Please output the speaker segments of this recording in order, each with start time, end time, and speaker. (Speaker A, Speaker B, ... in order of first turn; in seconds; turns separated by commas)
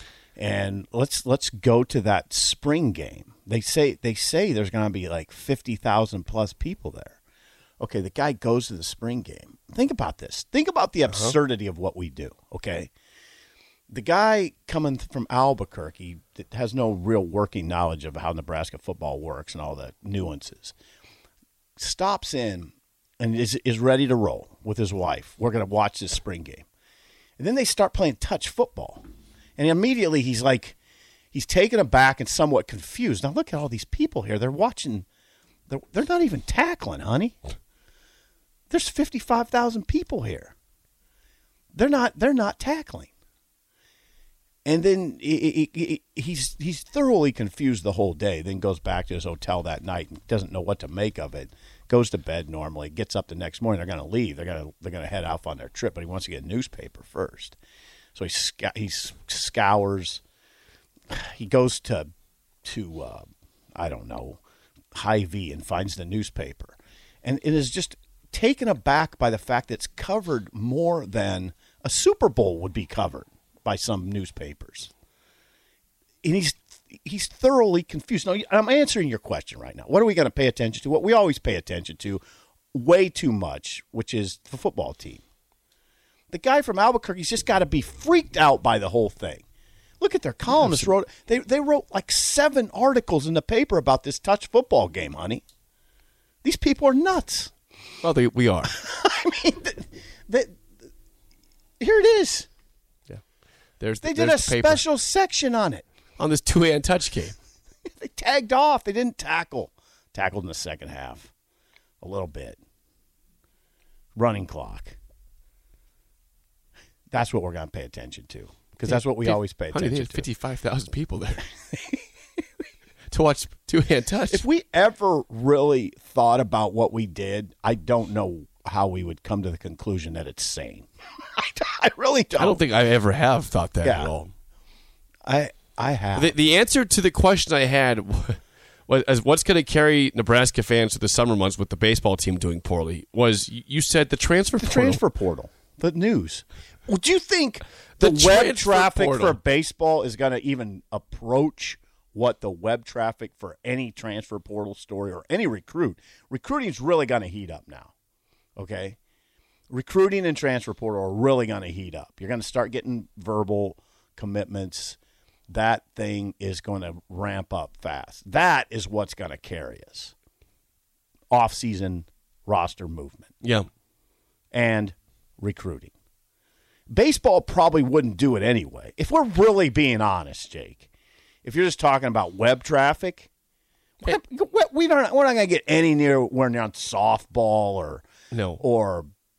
Speaker A: 0.4-7.2, Speaker A: 7.8-12.9, Speaker B: 11.1-11.3, Speaker A: 13.9-20.7, Speaker A: 21.8-26.7, Speaker A: 27.4-29.0, Speaker A: 29.6-30.8, Speaker A: 31.3-35.0, Speaker A: 35.7-37.4, Speaker A: 38.7-40.5, Speaker A: 41.7-43.1, Speaker A: 44.6-57.6, Speaker A: 58.1-60.2, Speaker A: 61.1-62.1, Speaker A: 62.6-64.4, Speaker A: 64.9-74.9, Speaker A: 76.2-82.2, Speaker A: 82.7-85.2, Speaker A: 86.3-89.4, Speaker A: 90.0-95.4, Speaker B: 90.5-90.9, Speaker A: 96.4-97.5, Speaker B: 98.0-98.7, Speaker A: 98.7-100.6, Speaker A: 101.8-102.5, Speaker B: 103.8-104.8, Speaker A: 104.0-105.8, Speaker B: 106.2-107.3, Speaker A: 107.9-111.3, Speaker A: 112.0-112.6, Speaker A: 114.1-115.0, Speaker A: 117.1-120.2, Speaker B: 118.9-121.5, Speaker B: 123.1-124.4, Speaker A: 124.3-132.6, Speaker B: 132.4-134.3, Speaker A: 133.8-134.1, Speaker A: 135.2-136.3, Speaker B: 136.1-145.0, Speaker A: 144.6-157.9, Speaker B: 148.0-149.4, Speaker A: 158.6-159.0, Speaker A: 159.7-165.0, Speaker A: 165.5-170.1, Speaker A: 171.3-173.3, Speaker B: 173.4-173.7, Speaker A: 174.5-175.9, Speaker A: 176.9-180.9, Speaker A: 181.4-183.3, Speaker A: 184.0-188.0, Speaker B: 188.3-188.6, Speaker A: 188.6-189.1